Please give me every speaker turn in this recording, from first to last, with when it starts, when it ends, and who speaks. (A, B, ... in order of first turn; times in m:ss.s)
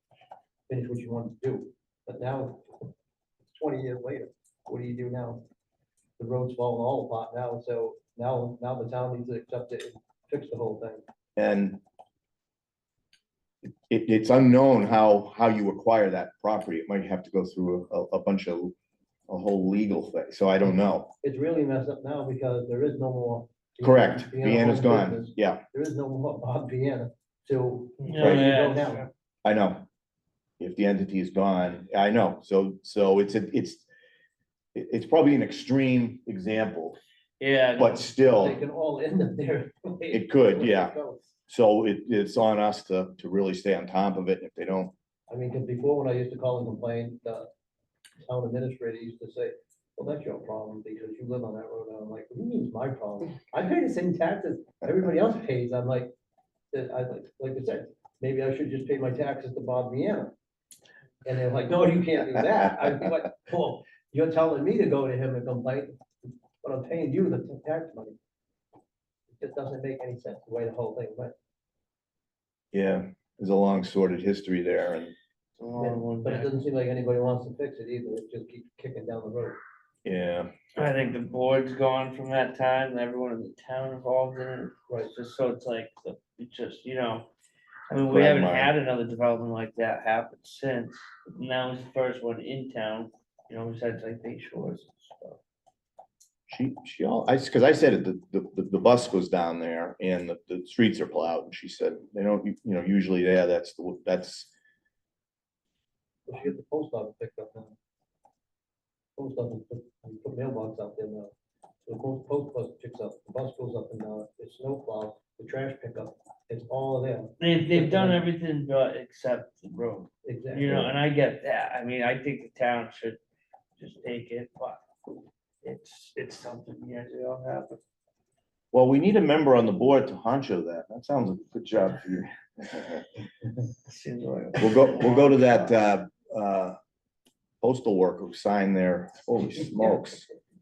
0:00.7-0:02.9 A
0:03.5-0:05.4 A
0:06.2-0:11.0 A
0:11.4-0:11.8 B
0:13.9-0:18.7 B
0:19.3-0:21.1 B
0:21.2-0:29.1 A
0:23.8-0:25.6 B
0:28.0-0:29.1 C
0:28.2-0:28.5 B
0:29.4-0:29.9 B
0:30.6-0:33.9 B
0:34.8-0:37.0 B
0:37.4-0:38.0 C
0:37.8-0:38.6 B
0:38.3-0:41.3 A
0:40.1-0:41.0 B
0:41.5-0:44.9 B
0:45.3-0:47.5 A
0:48.2-0:56.1 A
0:56.7-1:00.3 A
1:01.2-1:06.0 A
1:06.6-1:08.2 A
1:09.3-1:11.4 A
1:12.7-1:15.2 B
1:15.6-1:16.5 C
1:15.8-1:19.6 A
1:20.0-1:20.5 B
1:20.8-1:27.3 C
1:27.9-1:35.4 C
1:27.9-1:28.7 B
1:36.5-1:44.5 B
1:46.3-1:47.8 A
1:49.2-1:51.3 A
1:51.8-1:58.2 A
1:57.4-2:03.2 C
2:00.2-2:01.0 A
2:03.8-2:04.8 C
2:05.6-2:07.8 C
2:08.7-2:13.0 B
2:13.9-2:15.9 C
2:14.6-2:16.8 B
2:17.6-2:20.3 B